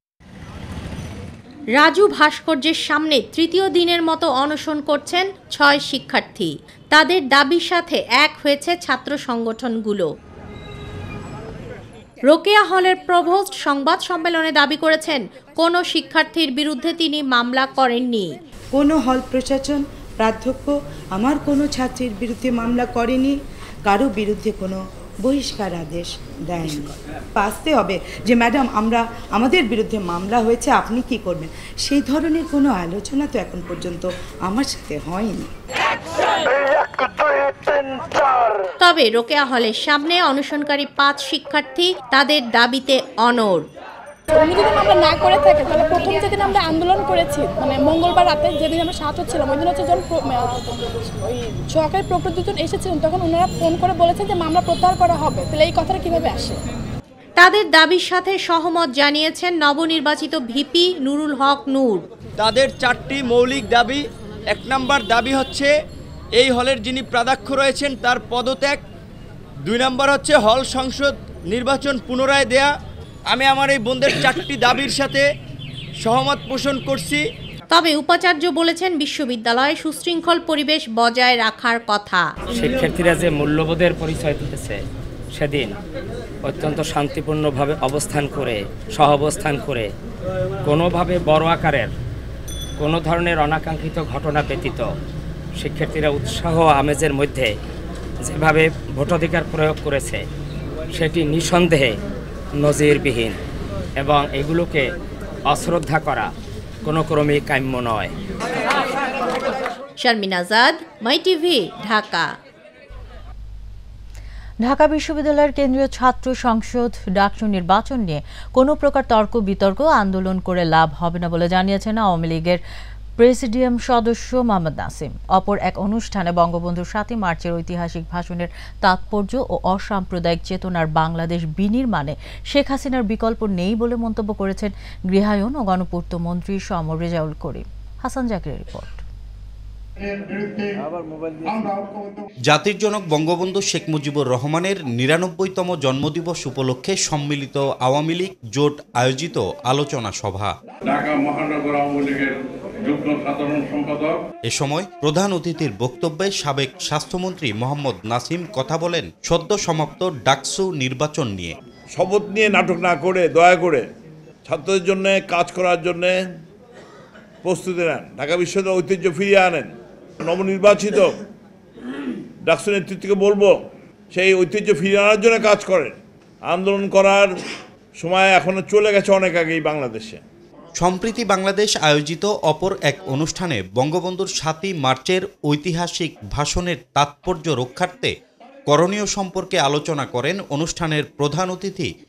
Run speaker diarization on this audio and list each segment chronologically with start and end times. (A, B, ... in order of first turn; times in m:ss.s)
0:01.8-0:10.0 A
0:12.3-0:18.2 A
0:18.7-0:23.3 B
0:23.8-0:35.5 B
0:38.8-0:43.6 A
0:44.3-0:56.6 C
0:57.4-1:02.0 A
1:02.4-1:05.7 D
1:06.4-1:08.8 D
1:09.6-1:12.7 D
1:13.3-1:15.2 D
1:16.0-1:17.2 D
1:17.7-1:22.2 A
1:22.5-1:24.8 E
1:25.3-1:25.7 E
1:26.4-1:29.9 E
1:30.6-1:31.9 E
1:32.8-1:34.9 E
1:35.6-1:37.5 E
1:38.2-1:40.2 E
1:40.9-1:42.0 E
1:42.6-1:43.4 E
1:44.0-1:44.9 E
1:45.4-1:46.3 E
1:46.8-1:48.1 E
1:50.0-1:52.2 A
1:54.6-2:02.6 F
2:03.2-2:19.0 F
2:22.4-2:30.5 G
2:34.5-2:41.5 G
2:41.9-2:43.8 H
2:44.4-2:46.2 H
2:47.4-2:49.7 H
2:50.2-2:51.2 H
2:52.4-2:53.5 H
2:54.1-2:57.3 H
2:58.0-3:00.2 H
3:00.8-3:08.1 G
3:08.7-3:11.9 G